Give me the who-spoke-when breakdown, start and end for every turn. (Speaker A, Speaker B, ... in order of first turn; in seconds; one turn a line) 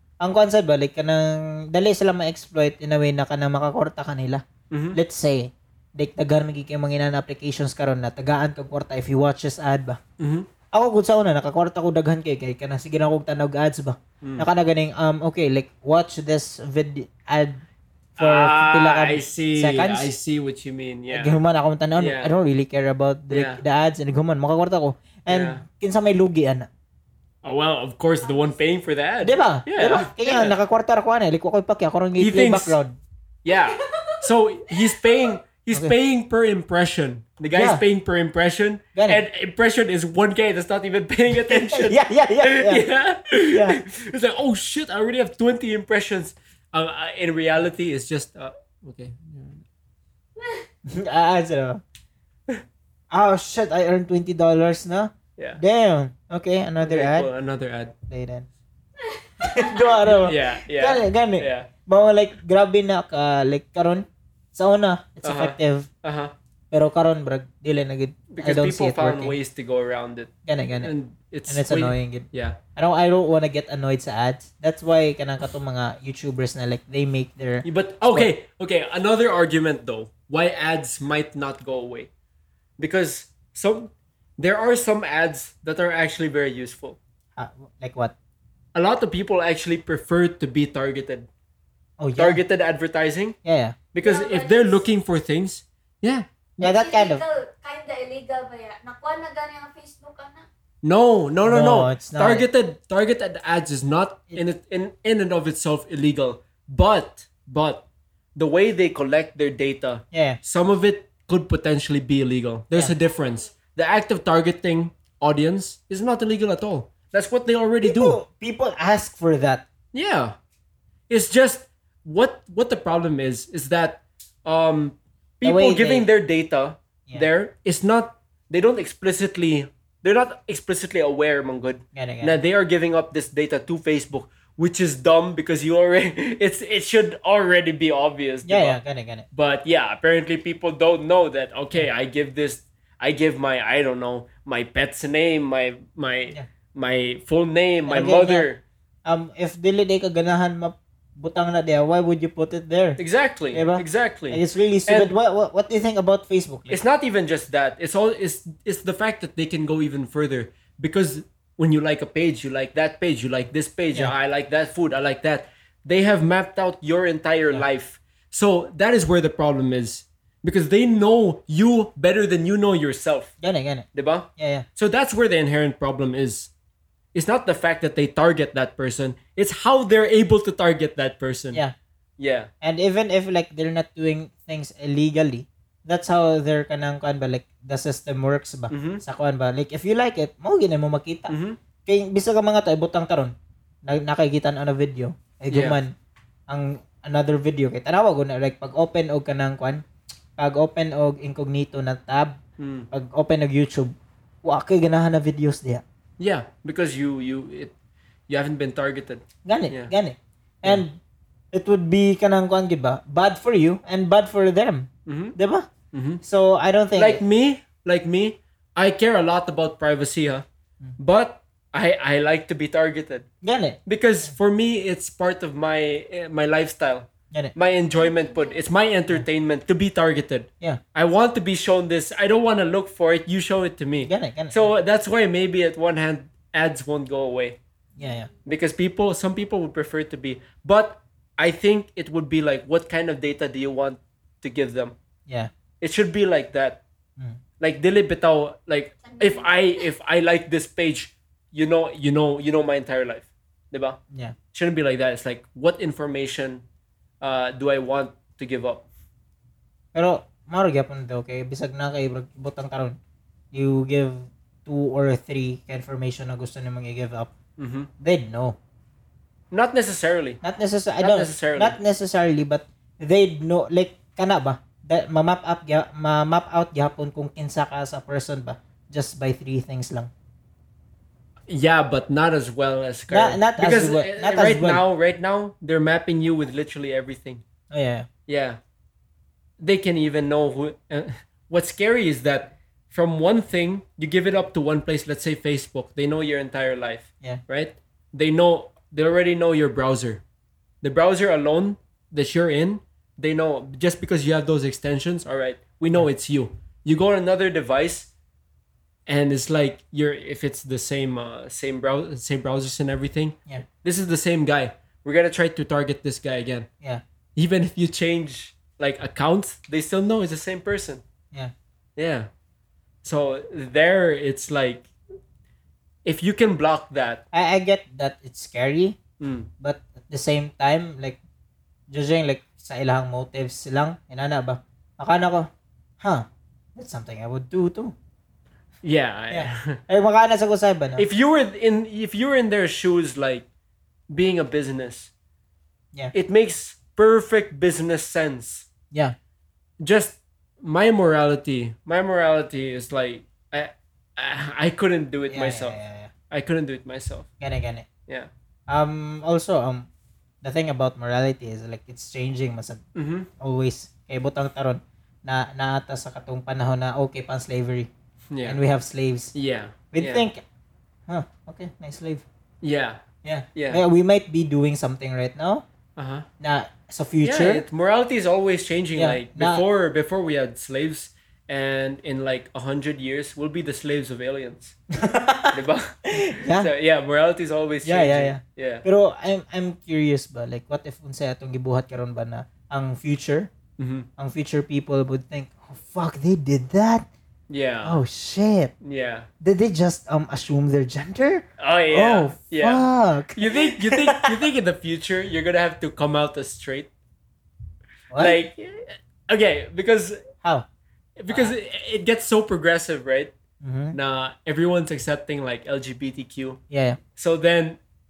Speaker A: 0.2-4.4
Speaker B: 4.7-5.0
Speaker A: 4.9-10.0
Speaker B: 10.2-10.5
Speaker A: 10.7-17.6
Speaker B: 14.2-14.5
Speaker A: 18.2-20.1
Speaker B: 18.2-21.4
Speaker A: 21.1-26.7
Speaker B: 22.0-22.3
Speaker B: 23.3-23.6
Speaker B: 25.3-25.6
Speaker B: 27.4-30.6
Speaker C: 28.2-28.5
Speaker A: 29.2-33.0
Speaker B: 32.2-32.8
Speaker B: 33.4-49.6
Speaker C: 33.7-34.2
Speaker C: 34.7-35.3
Speaker A: 37.5-37.8
Speaker A: 39.0-39.2
Speaker A: 41.5-42.8
Speaker A: 43.5-43.8
Speaker C: 50.4-50.6
Speaker A: 50.9-51.8
Speaker A: 53.1-57.3
Speaker B: 56.8-58.0
Speaker A: 58.1-58.5
Speaker C: 59.0-60.0
Speaker A: 59.4-65.9
Speaker B: 60.1-61.7
Speaker B: 65.2-66.3
Speaker A: 66.7-69.4
Speaker B: 68.3-72.6
Speaker A: 70.5-70.9
Speaker A: 71.5-78.3
Speaker B: 77.7-82.1
Speaker B: 82.8-87.0
Speaker A: 87.4-88.1
Speaker B: 88.7-91.3
Speaker A: 92.0-92.4
Speaker B: 92.2-93.4
Speaker A: 93.5-93.8
Speaker B: 93.9-96.3
Speaker C: 94.0-94.8
Speaker A: 96.6-97.2
Speaker C: 96.6-100.5
Speaker B: 100.8-118.2
Speaker A: 101.4-102.5
Speaker A: 110.1-110.4
Speaker A: 117.8-119.7
Speaker B: 119.9-120.4
Speaker B: 121.1-138.8
Speaker A: 125.4-126.1
Speaker A: 131.9-132.4
Speaker A: 138.5-139.3
Speaker B: 139.3-148.6
Speaker A: 147.9-148.5
Speaker A: 149.1-153.0
Speaker B: 153.0-155.1
Speaker A: 153.5-156.8
Speaker B: 156.7-173.3
Speaker A: 173.4-173.9
Speaker B: 173.9-176.5
Speaker A: 174.4-174.7
Speaker B: 177.1-181.6
Speaker B: 182.2-182.5
Speaker A: 182.6-191.3
Speaker B: 188.7-189.0
Speaker B: 191.3-191.6
Speaker A: 191.9-193.3
Speaker A: 193.9-195.9
Speaker B: 195.5-195.8
Speaker A: 196.5-199.8
Speaker A: 200.4-202.4
Speaker B: 202.6-202.9
Speaker A: 202.9-205.8
Speaker B: 206.2-207.7
Speaker B: 208.3-209.9
Speaker A: 209.4-211.0
Speaker A: 211.5-215.7
Speaker B: 215.1-215.4
Speaker B: 215.9-216.2
Speaker A: 216.2-217.2
Speaker B: 216.9-220.5
Speaker B: 221.0-223.3
Speaker A: 223.4-224.3
Speaker B: 223.9-237.6
Speaker C: 227.9-228.7
Speaker A: 234.0-234.7
Speaker C: 238.0-238.3
Speaker A: 238.0-238.3
Speaker B: 238.5-245.0
Speaker B: 245.8-246.8
Speaker B: 247.6-254.0
Speaker C: 249.0-249.9
Speaker B: 254.5-256.6
Speaker B: 257.2-258.9
Speaker A: 259.9-263.0
Speaker A: 263.5-267.3
Speaker B: 267.6-267.9
Speaker A: 268.0-268.6
Speaker B: 269.5-270.4
Speaker A: 270.4-280.1
Speaker B: 271.0-271.8
Speaker B: 281.5-287.4
Speaker A: 283.1-284.8
Speaker A: 287.7-288.1
Speaker B: 288.3-288.6
Speaker B: 289.6-300.2
Speaker B: 300.8-308.1
Speaker B: 309.1-316.7
Speaker B: 317.4-321.0
Speaker B: 322.0-322.3
Speaker B: 323.0-324.9
Speaker B: 326.1-327.2
Speaker A: 327.3-329.0
Speaker B: 329.2-329.5
Speaker A: 329.6-331.2
Speaker A: 331.9-335.5
Speaker A: 336.0-337.9
Speaker B: 338.8-339.8
Speaker A: 339.3-341.1
Speaker B: 341.0-343.5
Speaker B: 344.1-345.1
Speaker B: 346.1-348.7
Speaker B: 349.8-355.8
Speaker A: 355.3-356.1
Speaker B: 356.3-357.3
Speaker A: 357.4-357.9
Speaker A: 358.7-359.9
Speaker A: 360.4-362.8
Speaker B: 362.9-363.3
Speaker A: 363.4-367.9
Speaker B: 368.3-368.6
Speaker A: 368.4-369.3
Speaker B: 369.3-370.2
Speaker A: 369.9-370.4
Speaker A: 371.1-372.2
Speaker B: 372.6-373.0
Speaker A: 373.2-375.6
Speaker B: 373.6-373.8
Speaker B: 376.0-376.3
Speaker A: 376.4-377.6
Speaker B: 377.2-384.8
Speaker A: 378.9-379.6
Speaker A: 384.9-386.7
Speaker B: 385.5-388.8
Speaker A: 387.8-393.5
Speaker B: 393.8-394.1
Speaker A: 394.2-397.1
Speaker B: 397.5-398.0
Speaker A: 397.8-398.7
Speaker B: 398.8-399.3
Speaker A: 399.4-404.4
Speaker B: 401.6-402.9
Speaker B: 403.4-406.9
Speaker A: 408.1-408.4
Speaker B: 408.2-410.2
Speaker B: 411.2-413.3
Speaker A: 411.3-411.5
Speaker A: 413.6-414.0
Speaker B: 413.9-416.6
Speaker A: 416.7-417.0
Speaker B: 417.2-417.8